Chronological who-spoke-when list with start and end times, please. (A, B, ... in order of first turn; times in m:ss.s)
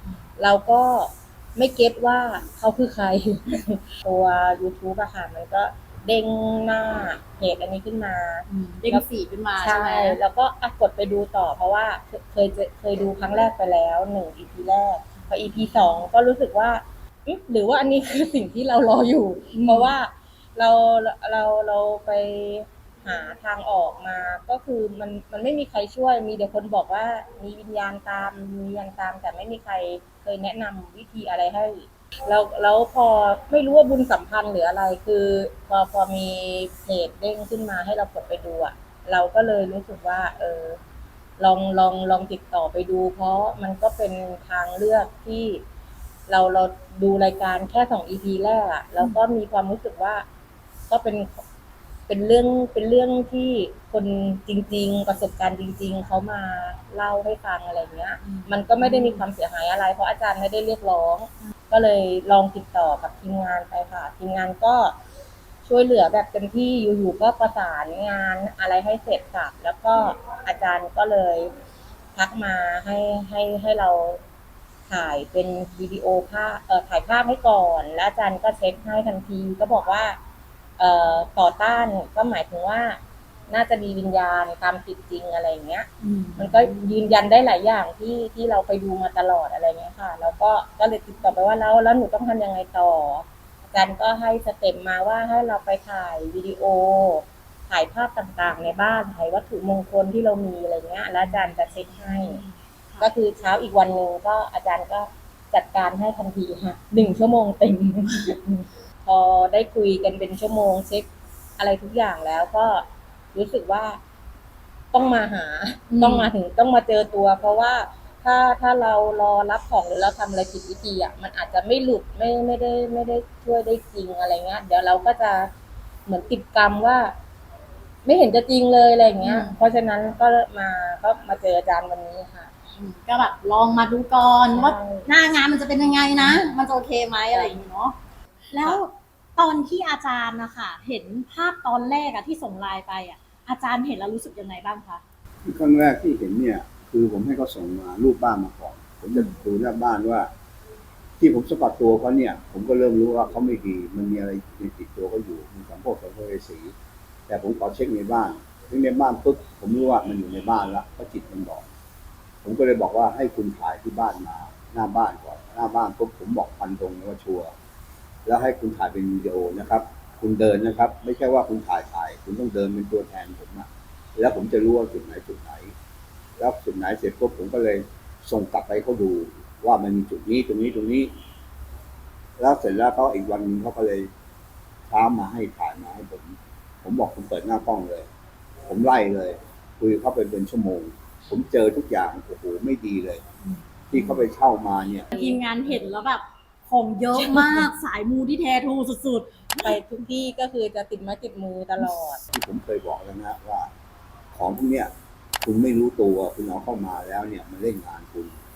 0:00.4-0:09.0 A
0:08.5-0:10.2 B
0:09.6-0:40.8 A
0:19.5-0:20.0 B
0:41.4-0:45.6 A
0:46.3-0:50.2 A
0:50.9-0:51.4 A
0:52.1-1:05.0 A
0:58.2-0:59.3 B
1:05.6-1:11.5 A
1:12.2-1:14.2 A
1:14.9-1:20.2 A
1:20.8-1:42.4 A
1:26.0-1:27.0 B
1:41.2-1:43.1 B
1:43.0-1:54.0 A
1:54.9-2:05.5 A
1:55.9-1:56.3 B
2:06.1-2:07.2 A
2:08.0-2:12.5 A
2:09.2-2:09.6 B
2:12.8-2:18.0 B
2:14.5-2:15.1 A
2:17.3-2:17.6 A
2:18.5-2:25.0 B
2:25.4-2:30.3 C
2:31.2-2:36.7 C
2:37.3-2:41.6 C
2:42.4-2:47.5 C
2:48.3-2:55.7 C
2:56.4-3:01.1 C
3:02.4-3:04.1 C
3:04.9-3:08.1 C
3:08.7-3:13.2 C
3:13.4-3:14.3 B
3:13.9-3:15.1 C
3:15.1-3:19.8 B
3:19.6-3:22.2 A
3:22.3-3:23.7 C
3:24.3-3:24.9 C
3:25.4-3:28.3 C